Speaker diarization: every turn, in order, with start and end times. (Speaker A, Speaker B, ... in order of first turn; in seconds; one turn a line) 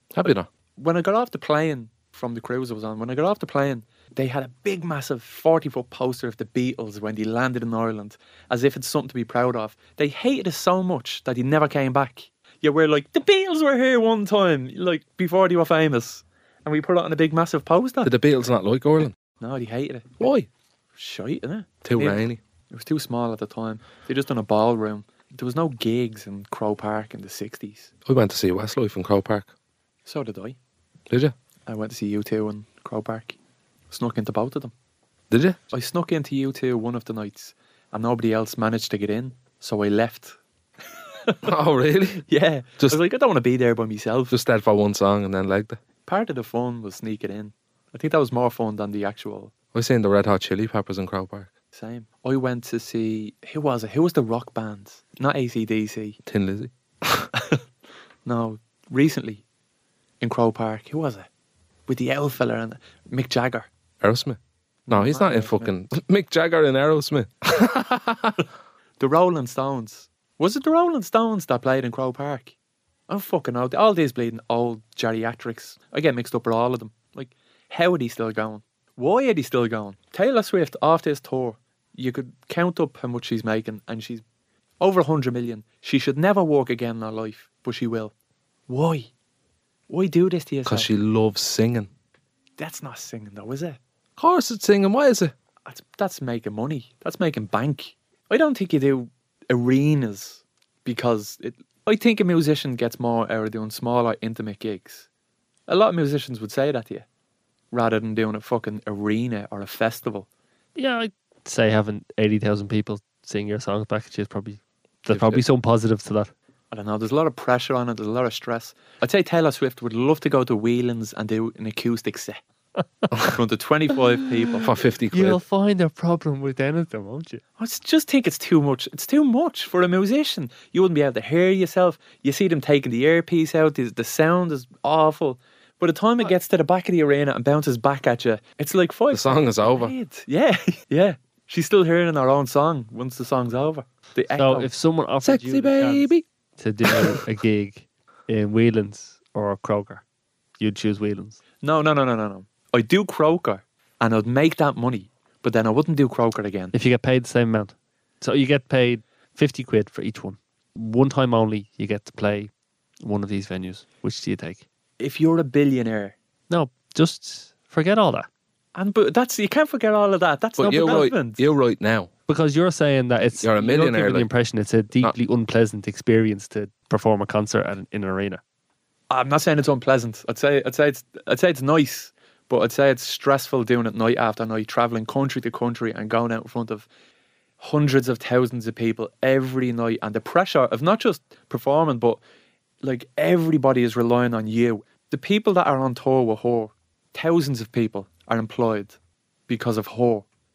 Speaker A: 0.1-0.5
Speaker B: 0.8-18.1
Speaker A: 18.0-19.1
Speaker B: 19.4-20.2
Speaker A: 20.2-20.5
Speaker B: 20.9-27.9
Speaker A: 21.8-22.4
Speaker A: 28.0-29.5
Speaker B: 30.0-30.6
Speaker B: 31.7-33.4
Speaker B: 33.9-34.7
Speaker A: 35.3-35.6
Speaker B: 35.7-40.4
Speaker A: 41.4-42.2
Speaker B: 42.2-44.3
Speaker A: 44.3-45.8
Speaker B: 46.0-49.5
Speaker A: 49.7-51.5
Speaker B: 51.7-56.2
Speaker A: 56.2-57.3
Speaker B: 57.4-57.6
Speaker B: 58.2-59.4
Speaker B: 60.2-61.3
Speaker B: 61.9-63.7
Speaker A: 64.0-64.4
Speaker B: 64.9-65.7
Speaker A: 64.9-68.4
Speaker B: 69.0-72.5
Speaker B: 73.1-84.2
Speaker B: 84.8-88.1
Speaker B: 88.7-89.1
Speaker B: 89.9-90.9
Speaker A: 90.7-91.9
Speaker B: 92.6-93.8
Speaker A: 94.2-95.3
Speaker B: 95.6-105.1
Speaker B: 105.7-107.0
Speaker B: 107.7-110.3
Speaker C: 110.8-116.3
Speaker A: 115.1-115.4
Speaker B: 116.7-122.4
Speaker B: 123.2-124.7
Speaker C: 124.5-127.4
Speaker A: 124.6-125.4
Speaker B: 127.6-144.7
Speaker A: 139.1-139.9
Speaker C: 144.4-150.0
Speaker A: 145.2-146.2
Speaker A: 146.9-147.2
Speaker C: 150.6-151.4
Speaker B: 151.6-156.7
Speaker C: 156.7-164.6
Speaker B: 165.0-166.1
Speaker C: 166.5-168.3
Speaker B: 168.7-171.4
Speaker A: 170.6-172.1
Speaker C: 172.3-178.4
Speaker A: 173.4-174.3
Speaker B: 179.1-186.8
Speaker B: 187.6-192.2
Speaker B: 192.8-199.0
Speaker B: 199.5-200.2